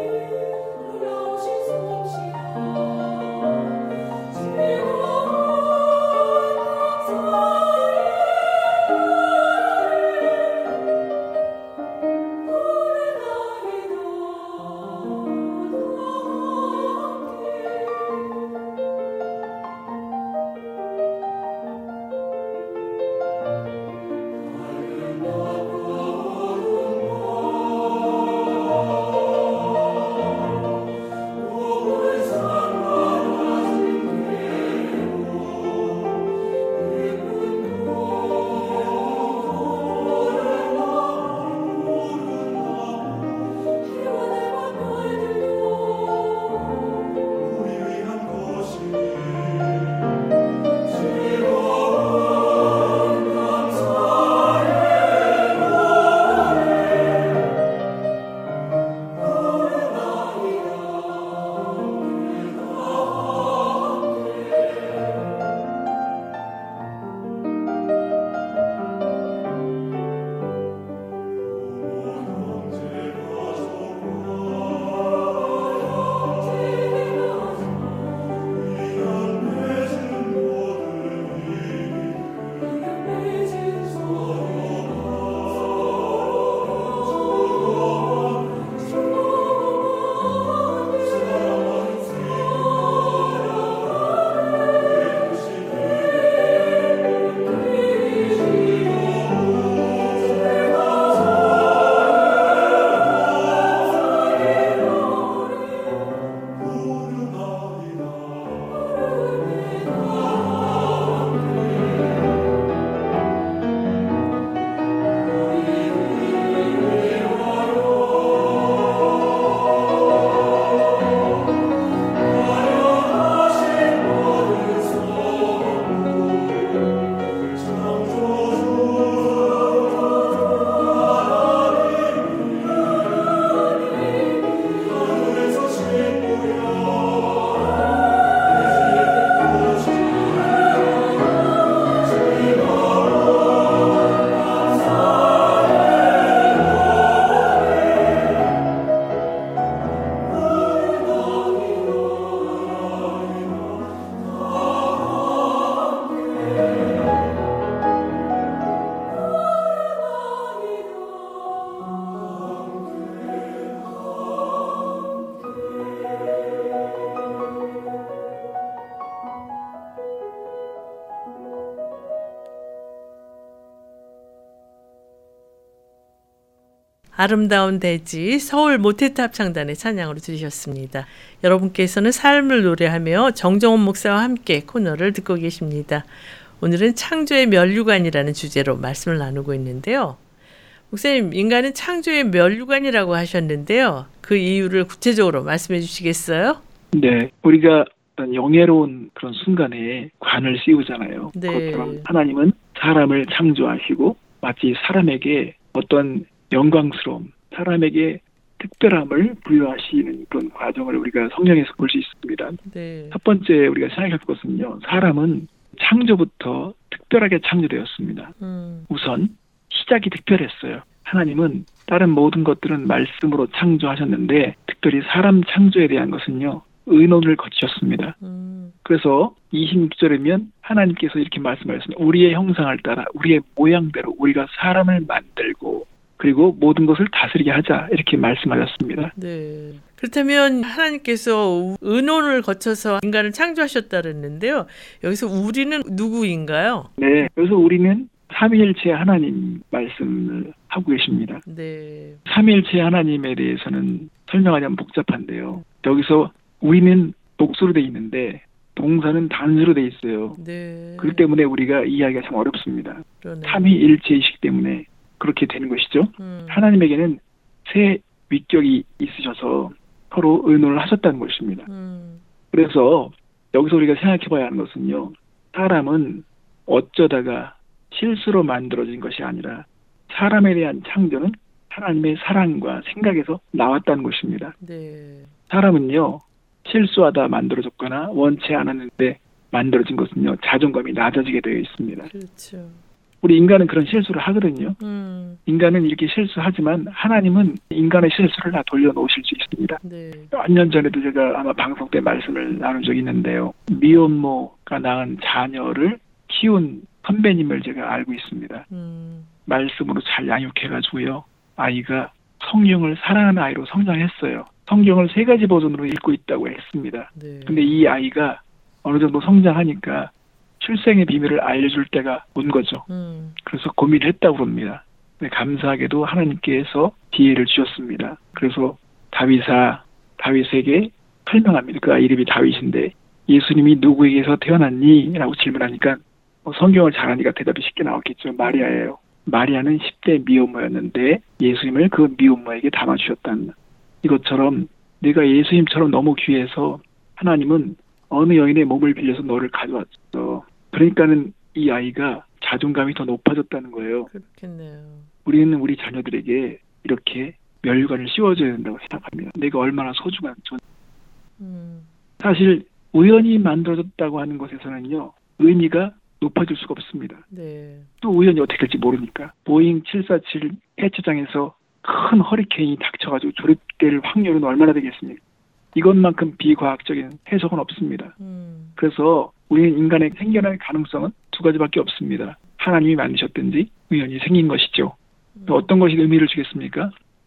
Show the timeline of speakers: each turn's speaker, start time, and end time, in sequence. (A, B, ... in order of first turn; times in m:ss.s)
2:57.1-3:06.1 A
3:06.6-3:10.2 A
3:10.9-3:16.6 A
3:16.9-3:32.6 B
3:21.3-3:22.1 A
3:32.6-3:33.2 A
3:33.1-3:38.3 B
3:38.4-3:38.9 A
3:38.9-3:48.2 B
3:48.2-3:48.7 A
3:48.8-3:59.1 B
3:59.2-4:06.9 A
4:07.0-4:11.4 B
4:11.4-4:12.2 A
4:12.3-4:20.4 B
4:20.4-4:21.3 A
4:21.0-4:31.7 B
4:23.2-4:23.7 A
4:26.2-4:26.7 A
4:31.6-4:32.2 A
4:32.5-4:44.5 B
4:44.6-4:45.3 A
4:45.5-4:52.1 B
4:52.1-4:52.8 A
4:53.2-4:54.8 B
4:54.8-4:55.4 A
4:55.4-4:59.8 B
4:59.8-5:00.3 A
5:00.3-5:08.6 B
5:08.7-5:09.3 A
5:09.4-5:22.8 B
5:17.1-5:17.8 A
5:22.9-5:23.4 A
5:23.4-5:54.1 B
5:38.4-5:38.7 A
5:54.1-5:55.1 A
5:55.2-6:00.6 B
6:01.4-6:01.9 A
6:02.2-6:07.2 B
6:07.3-6:07.9 A
6:08.0-6:15.2 B
6:15.7-6:18.1 B
6:18.2-6:18.8 A
6:18.8-6:25.0 B
6:25.4-6:25.7 A
6:25.5-6:26.9 B